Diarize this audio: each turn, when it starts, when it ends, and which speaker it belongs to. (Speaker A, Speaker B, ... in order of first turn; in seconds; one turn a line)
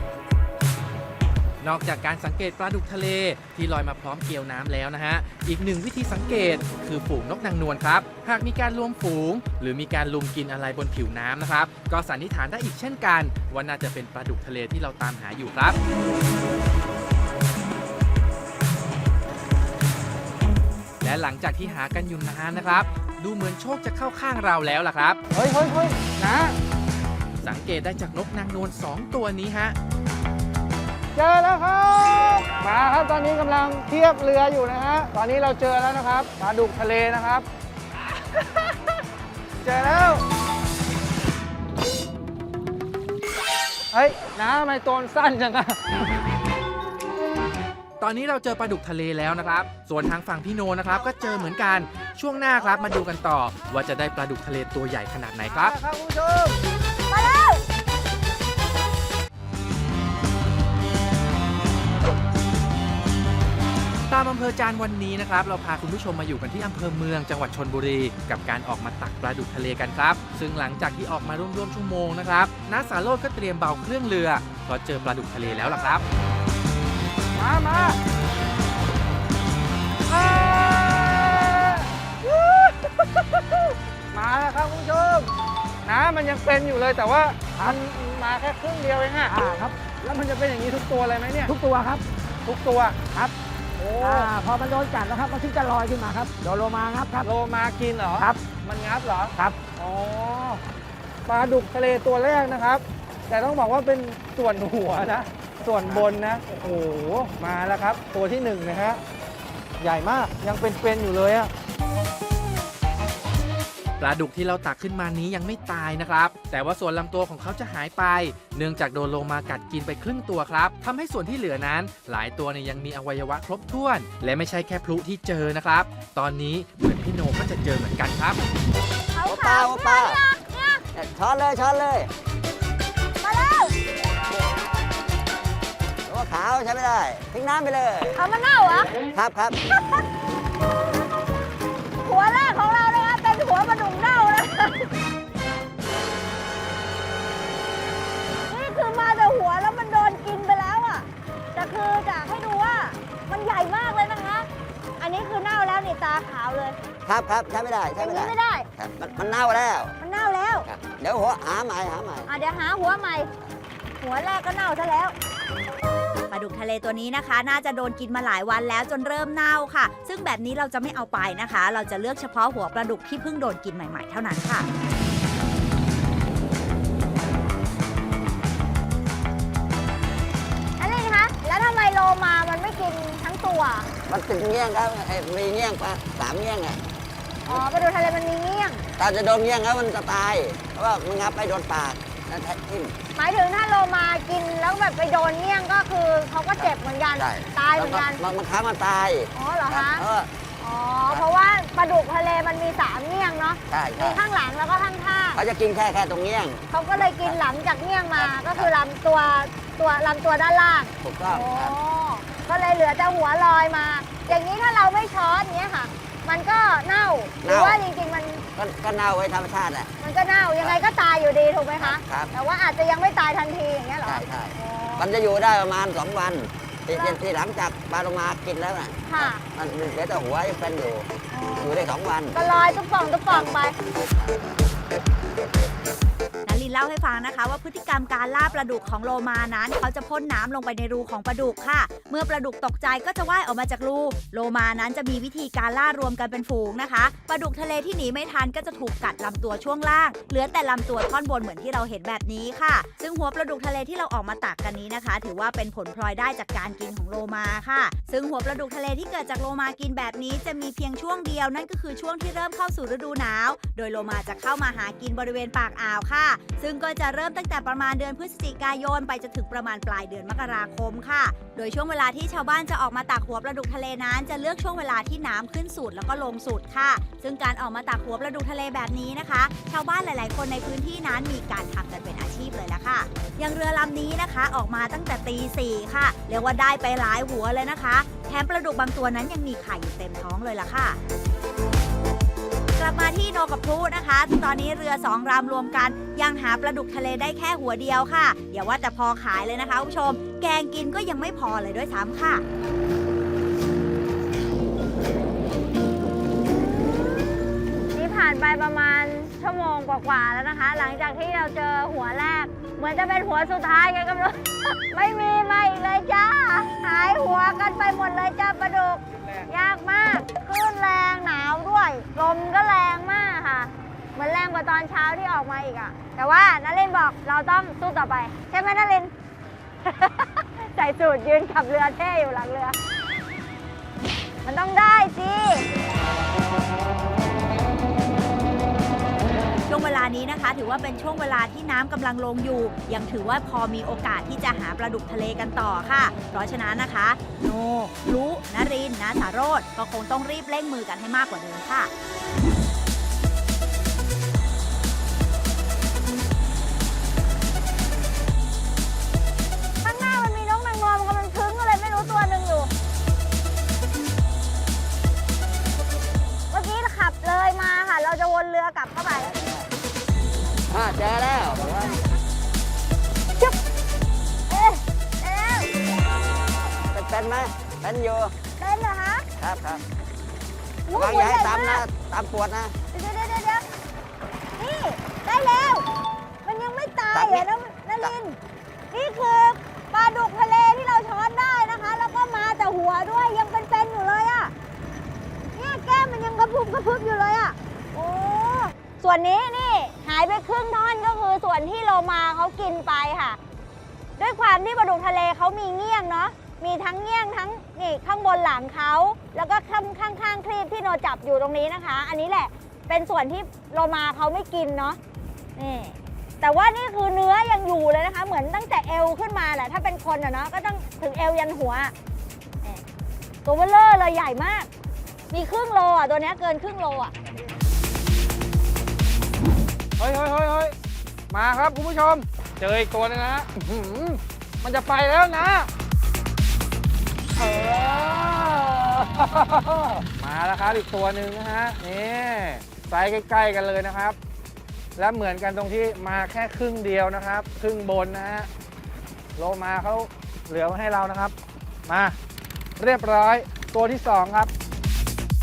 Speaker A: 1.6-15.8
Speaker A: 21.0-25.2
Speaker B: 25.3-26.6
Speaker A: 27.4-29.8
Speaker B: 31.1-37.5
Speaker B: 38.3-38.8
Speaker B: 39.6-40.2
Speaker B: 43.9-46.0
Speaker A: 48.0-55.7
Speaker C: 51.0-51.5
Speaker B: 55.5-56.6
Speaker C: 57.1-57.6
Speaker A: 64.1-76.0
Speaker B: 77.3-78.0
Speaker B: 80.0-85.3
Speaker B: 85.8-89.4
Speaker D: 89.3-89.7
Speaker B: 90.0-91.5
Speaker D: 91.5-92.0
Speaker B: 92.4-93.0
Speaker B: 93.8-94.3
Speaker D: 94.0-97.3
Speaker B: 97.2-100.6
Speaker D: 98.2-98.4
Speaker D: 99.3-99.6
Speaker B: 101.3-109.0
Speaker B: 109.8-111.5
Speaker A: 114.0-128.4
Speaker C: 129.1-130.8
Speaker E: 129.2-130.2
Speaker E: 130.9-132.1
Speaker C: 133.2-133.7
Speaker E: 136.1-138.2
Speaker C: 138.1-138.9
Speaker E: 139.1-139.6
Speaker C: 142.0-144.9
Speaker C: 148.5-154.5
Speaker C: 155.0-156.8
Speaker E: 157.1-159.9
Speaker C: 158.0-158.7
Speaker C: 160.0-160.7
Speaker E: 160.7-162.3
Speaker C: 162.3-163.3
Speaker C: 164.0-165.1
Speaker F: 166.3-174.7
Speaker C: 180.8-183.9
Speaker E: 184.1-186.8
Speaker E: 187.4-188.1
Speaker C: 187.5-188.8
Speaker E: 189.0-192.9
Speaker C: 193.2-198.2
Speaker E: 196.6-200.3
Speaker C: 199.3-200.1
Speaker C: 200.6-205.4
Speaker E: 203.7-204.2
Speaker E: 205.3-207.4
Speaker C: 206.7-218.4
Speaker E: 208.2-208.7
Speaker E: 211.0-211.7
Speaker E: 217.4-217.8
Speaker E: 218.5-219.9
Speaker C: 220.0-225.1
Speaker E: 221.8-222.3
Speaker E: 224.0-232.4
Speaker C: 226.9-227.2
Speaker C: 229.1-229.4
Speaker C: 231.3-233.7
Speaker E: 233.3-233.6
Speaker F: 236.4-291.0
Speaker F: 292.8-302.4
Speaker C: 306.6-307.2
Speaker C: 307.9-329.1
Speaker C: 329.8-332.8
Speaker C: 334.4-335.6
Speaker F: 339.7-351.9
Speaker C: 359.8-362.7
Speaker C: 366.5-369.5
Speaker E: 370.7-372.0
Speaker C: 371.6-372.0
Speaker C: 374.5-375.7
Speaker E: 376.9-378.3
Speaker C: 378.6-379.2
Speaker E: 379.4-379.8
Speaker C: 380.9-381.8
Speaker E: 380.9-382.7
Speaker C: 382.9-383.6
Speaker C: 384.6-385.9
Speaker C: 386.4-388.4
Speaker E: 387.1-387.5
Speaker C: 388.9-394.5
Speaker C: 395.6-403.4
Speaker C: 404.2-415.0
Speaker C: 415.6-421.9
Speaker C: 423.4-424.7
Speaker C: 425.3-427.1
Speaker B: 430.0-430.7
Speaker B: 431.3-435.7
Speaker B: 437.4-444.2
Speaker B: 444.9-448.5
Speaker B: 449.4-451.3
Speaker B: 451.9-452.1
Speaker B: 452.8-454.5